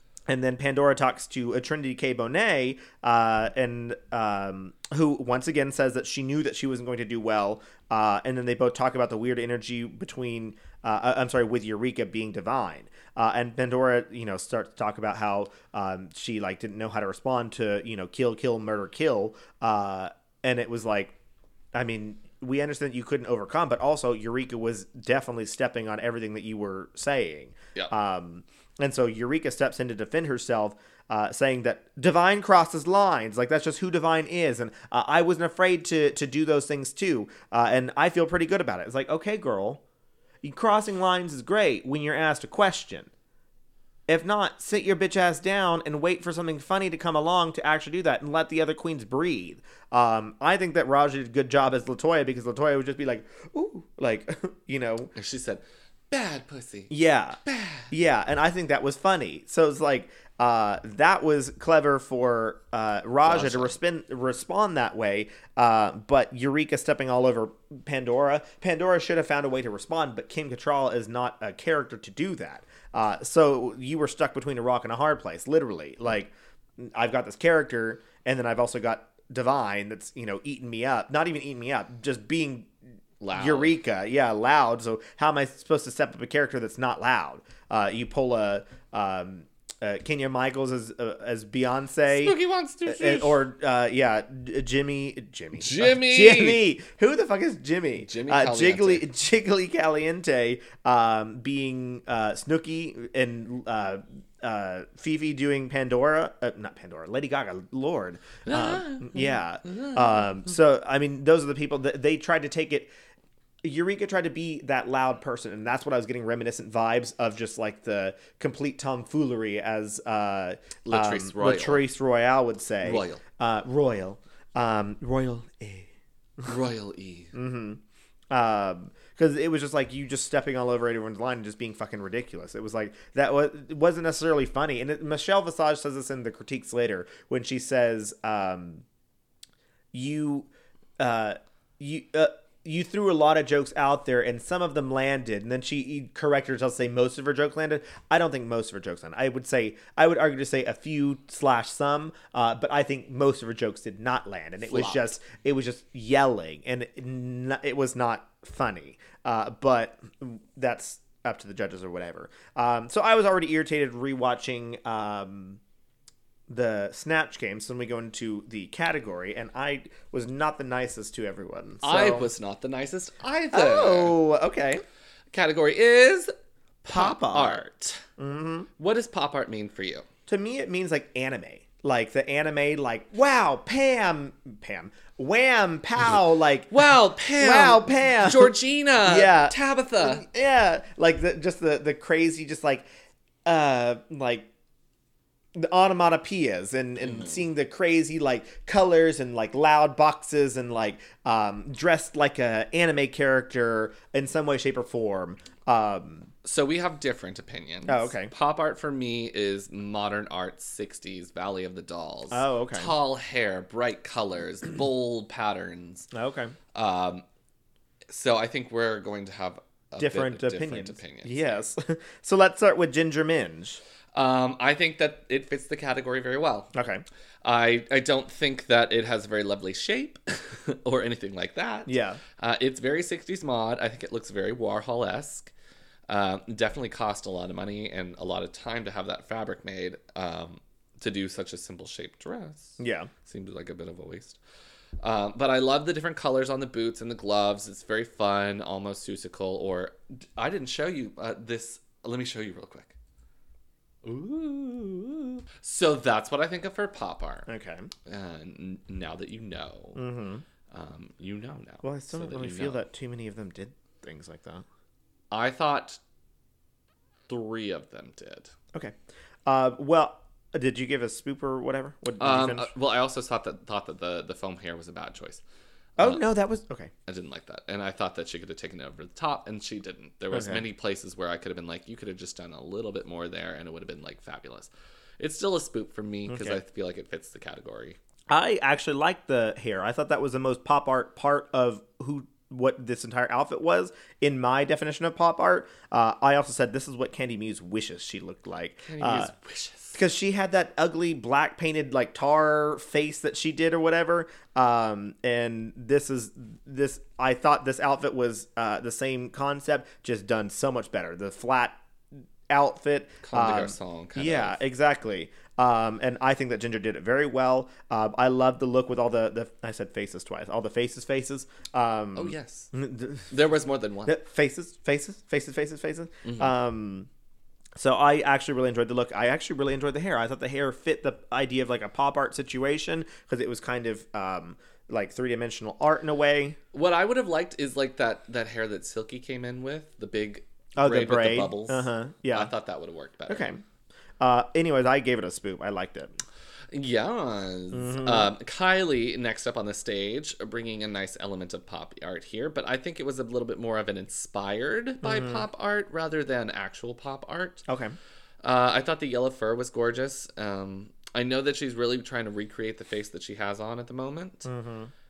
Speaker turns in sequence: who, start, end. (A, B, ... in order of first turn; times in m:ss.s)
0:00.3-0:21.1 A
0:21.7-0:39.8 A
0:40.4-0:43.1 A
0:44.1-0:55.1 A
0:55.1-0:56.9 B
0:56.9-0:57.4 A
0:57.4-0:57.9 B
0:57.9-1:22.7 A
1:03.2-1:03.7 B
1:23.2-1:23.8 B
1:23.3-1:52.9 A
1:32.1-1:33.4 B
1:35.6-1:36.6 B
1:38.0-1:39.0 B
1:48.4-1:50.3 B
1:53.6-2:05.9 A
2:00.9-2:01.8 B
2:02.8-2:03.2 B
2:06.4-2:07.3 B
2:07.3-2:18.8 A
2:19.9-2:45.6 A
2:34.7-2:35.0 B
2:46.5-2:52.3 A
2:51.8-2:54.2 B
2:53.5-2:54.8 A
2:55.3-2:56.3 B
2:56.8-2:58.0 B
2:56.9-2:57.6 A
2:58.2-2:58.7 A
2:58.8-3:00.0 B
3:00.3-3:12.8 A
3:06.7-3:10.2 B
3:13.4-3:14.5 A
3:15.5-3:26.3 A
3:17.0-3:17.4 B
3:26.4-3:36.1 B
3:27.9-3:28.3 A
3:32.3-3:32.9 A
3:36.1-3:36.5 A
3:36.7-3:37.2 B
3:38.1-3:41.6 B
3:40.0-3:43.8 A
3:44.1-3:46.7 B
3:46.7-3:47.0 A
3:47.4-3:55.5 B
3:51.9-3:52.2 A
3:56.1-4:04.4 B
4:02.8-4:03.1 A
4:05.0-4:12.9 B
4:14.0-4:17.5 B
4:17.5-4:17.9 A
4:18.0-4:20.0 B
4:20.0-4:20.4 A
4:20.7-4:22.8 B
4:21.8-4:24.6 A
4:25.3-4:26.0 B
4:27.3-4:28.5 B
4:28.7-4:32.7 A
4:32.2-4:35.4 B
4:36.0-4:36.9 A
4:37.1-4:48.0 B
4:40.3-4:40.6 A
4:46.3-4:46.6 A
4:48.3-4:59.3 A
4:58.8-5:00.0 B
4:59.9-5:11.8 A
5:12.5-5:23.3 A
5:13.2-5:14.6 B
5:22.1-5:22.7 B
5:23.3-5:24.2 B
5:24.0-5:27.1 A
5:26.2-5:26.5 B
5:27.8-5:36.6 A
5:36.7-5:43.5 B
5:40.8-5:42.5 A
5:43.3-5:43.6 A
5:44.2-5:46.1 A
5:46.7-5:57.6 B
5:47.7-5:48.3 A
5:55.0-5:55.4 A
5:57.7-5:58.0 A
5:58.4-6:04.5 B
6:04.4-6:04.9 A